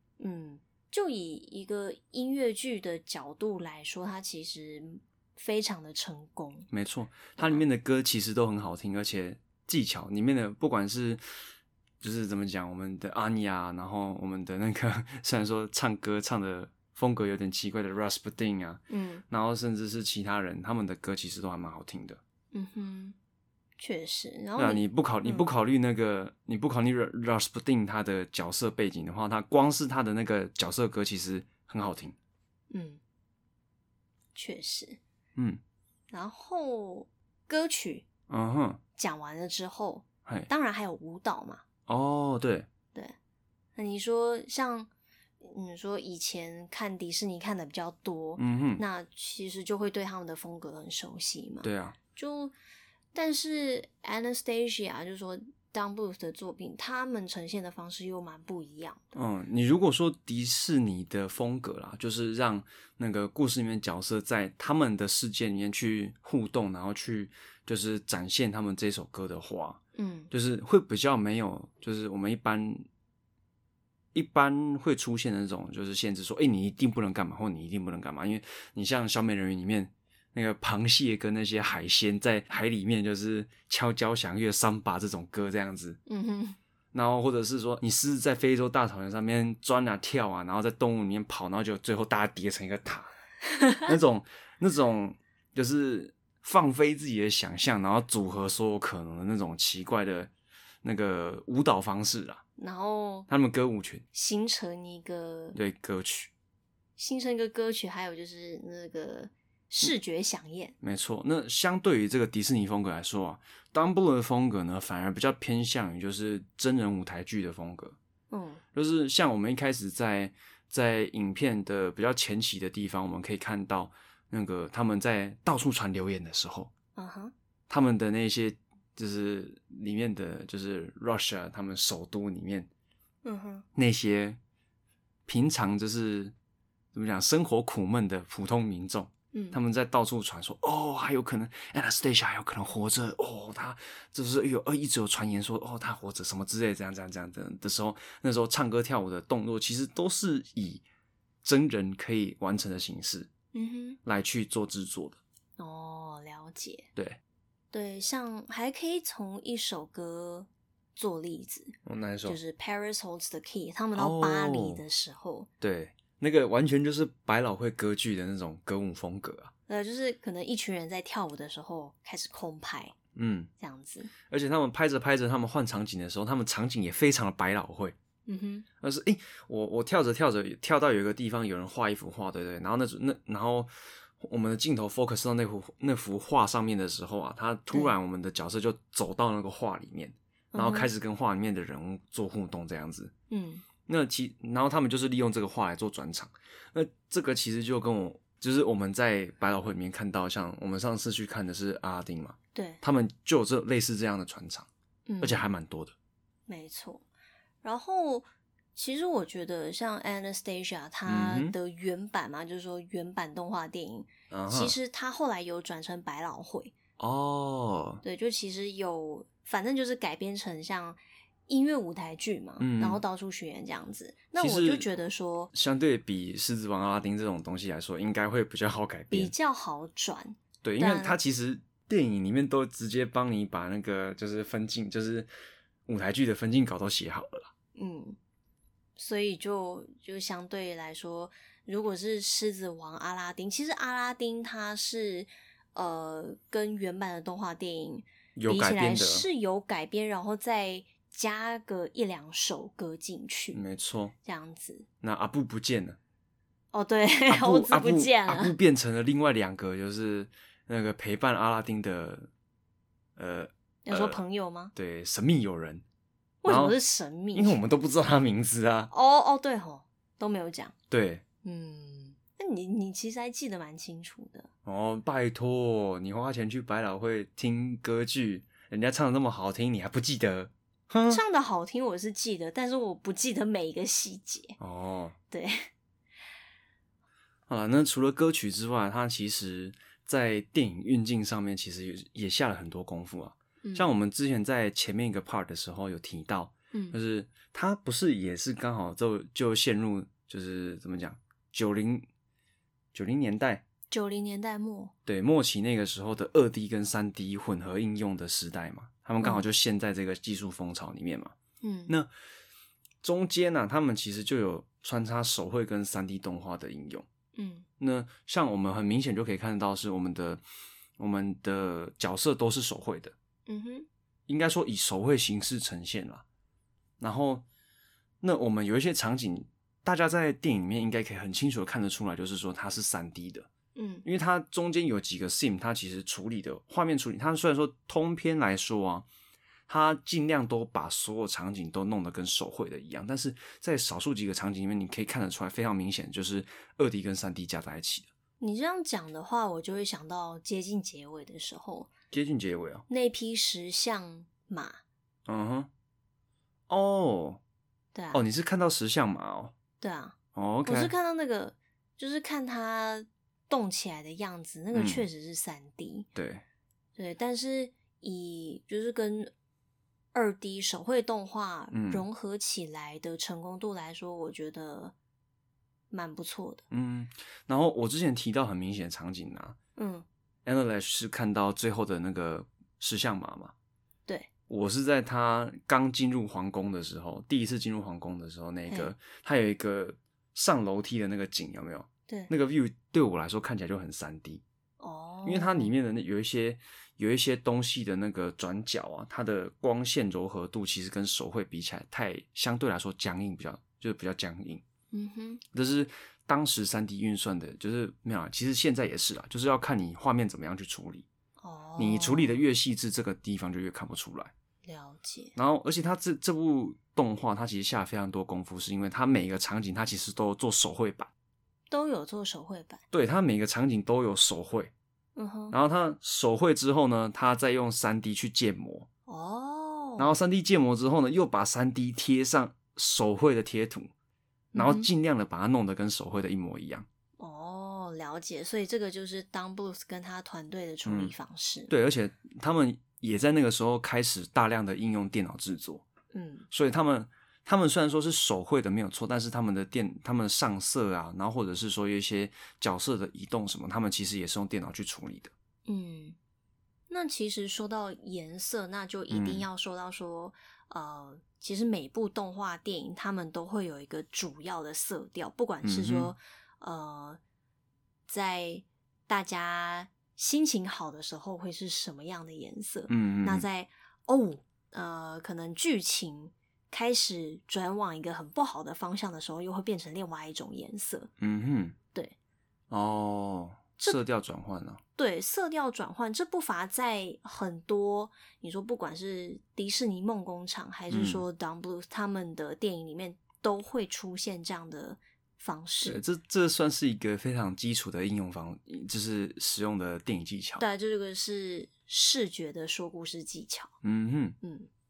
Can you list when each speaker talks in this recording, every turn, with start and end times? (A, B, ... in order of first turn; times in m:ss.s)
0:00.2-0:06.7 A
0:06.7-0:11.2 B
0:07.4-0:07.6 A
0:12.0-0:22.2 B
0:18.9-0:19.2 A
0:22.5-0:23.2 A
0:23.8-0:25.5 A
0:24.6-0:32.2 B
0:32.7-0:33.0 A
0:34.3-0:35.0 A
0:35.4-0:35.6 B
0:36.1-0:38.0 A
0:38.3-0:38.8 B
0:39.0-0:41.6 A
0:41.9-0:42.7 B
0:43.8-0:44.9 A
0:45.4-0:52.5 A
0:48.4-0:48.8 B
0:51.6-0:52.0 B
0:53.1-0:59.1 A
0:59.1-1:09.8 B
1:10.0-1:10.3 A
1:10.3-1:12.8 B
1:14.1-1:26.0 B
1:26.1-1:26.6 A
1:26.9-1:33.1 B
1:33.5-1:33.9 A
1:33.8-1:40.3 B
1:40.8-1:42.4 B
1:42.6-1:43.3 A
1:43.3-1:44.0 B
1:44.1-1:45.6 A
1:45.5-1:46.3 B
1:47.0-1:50.7 A
1:50.8-1:58.0 B
1:58.3-1:58.6 A
1:58.7-2:06.7 B
2:07.0-2:07.3 A
2:07.7-2:12.7 B
2:13.2-2:13.6 A
2:13.7-2:14.4 B
2:15.3-2:16.3 B
2:16.9-2:30.8 B
2:19.3-2:19.6 A
2:31.4-2:33.3 B
2:33.5-2:34.0 A
2:34.0-2:35.2 B
2:35.6-2:36.9 A
2:37.7-2:45.5 A
2:41.8-2:42.4 B
2:44.0-2:44.8 B
2:45.6-2:49.5 B
2:49.7-2:52.9 A
2:53.1-2:53.5 B
2:53.6-2:54.1 A
2:54.3-2:58.0 B
2:58.2-2:58.6 A
2:58.8-3:13.1 B
3:10.5-3:10.9 A
3:13.3-3:13.6 A
3:13.9-3:24.7 B
3:22.5-3:22.8 A
3:25.1-3:25.5 A
3:25.2-3:25.9 B
3:26.5-3:27.0 A
3:27.6-3:36.7 A
3:31.1-3:31.5 B
3:34.3-3:34.8 B
3:37.0-3:38.0 B
3:38.0-3:45.5 A
3:42.6-3:43.0 B
3:44.4-3:44.9 B
3:45.5-3:49.3 B
3:49.1-3:51.2 A
3:50.6-3:55.3 B
3:55.9-3:57.5 B
3:57.7-3:58.2 A
3:59.0-4:13.6 A
4:08.4-4:09.2 B
4:13.5-4:14.1 B
4:14.2-4:14.8 A
4:15.0-4:16.0 B
4:16.7-4:18.5 A
4:17.3-4:22.3 B
4:23.2-4:24.2 B
4:23.8-4:24.7 A
4:24.7-4:25.8 B
4:26.4-4:27.6 A
4:26.4-4:26.8 B
4:27.3-4:28.9 B
4:28.9-4:30.7 A
4:30.9-4:31.2 B
4:31.4-4:34.5 A
4:34.6-4:41.2 B
4:41.1-4:44.6 A
4:44.6-4:45.2 B
4:45.3-4:45.7 A
4:47.5-5:02.0 B
4:53.6-4:53.9 A
4:56.7-4:57.0 A
5:02.9-5:03.6 B
5:03.9-5:04.9 A
5:05.0-5:11.3 B
5:11.6-5:12.0 A
5:13.0-5:17.0 B
5:17.3-5:17.7 A
5:17.8-5:20.4 B
5:21.0-5:23.1 B
5:23.5-5:23.9 A
5:24.3-5:26.2 B
5:27.0-5:27.4 B
5:28.2-5:33.5 B
5:33.7-5:34.0 A
5:34.0-5:39.0 B
5:39.7-5:48.1 B
5:48.4-5:51.9 A
5:52.1-5:52.8 B
5:52.9-5:54.8 A
5:55.2-5:55.7 B
5:56.7-5:57.4 B
5:57.9-5:58.2 A
5:58.1-5:59.5 B
5:59.8-6:06.1 A
6:00.3-6:00.9 B
6:04.7-6:05.1 B
6:06.1-6:06.4 B
6:07.0-6:09.3 A
6:10.1-6:14.9 A
6:11.7-6:12.0 B
6:15.9-6:16.6 A
6:16.7-6:19.6 B
6:19.8-6:20.0 A
6:20.4-6:23.5 B
6:24.5-6:34.4 B
6:34.8-6:35.7 A
6:35.2-6:44.6 B
6:44.9-6:45.4 A
6:45.5-6:51.1 B
6:51.4-6:52.4 A
6:51.8-6:54.3 B
6:54.6-6:55.3 A
6:55.4-7:01.1 B
7:01.7-7:02.8 A
7:02.9-7:04.7 B
7:05.2-7:05.5 A
7:05.5-7:08.9 B
7:09.1-7:10.2 A
7:10.0-7:13.9 B
7:14.5-7:14.9 A
7:14.5-7:16.8 B
7:17.2-7:21.7 A
7:20.8-7:21.1 B
7:21.7-7:25.8 B
7:26.1-7:26.4 A
7:26.5-7:35.3 B
7:35.6-7:36.2 A
7:36.9-7:47.2 A
7:39.1-7:39.4 B
7:45.6-7:46.1 B
7:48.1-8:01.1 A
7:52.9-7:53.4 B
8:01.2-8:01.8 B
8:02.7-8:04.8 B
8:05.0-8:16.0 A
8:10.9-8:11.2 B
8:15.8-8:20.6 B
8:20.6-8:23.7 A
8:23.8-8:24.4 B
8:24.4-8:24.7 A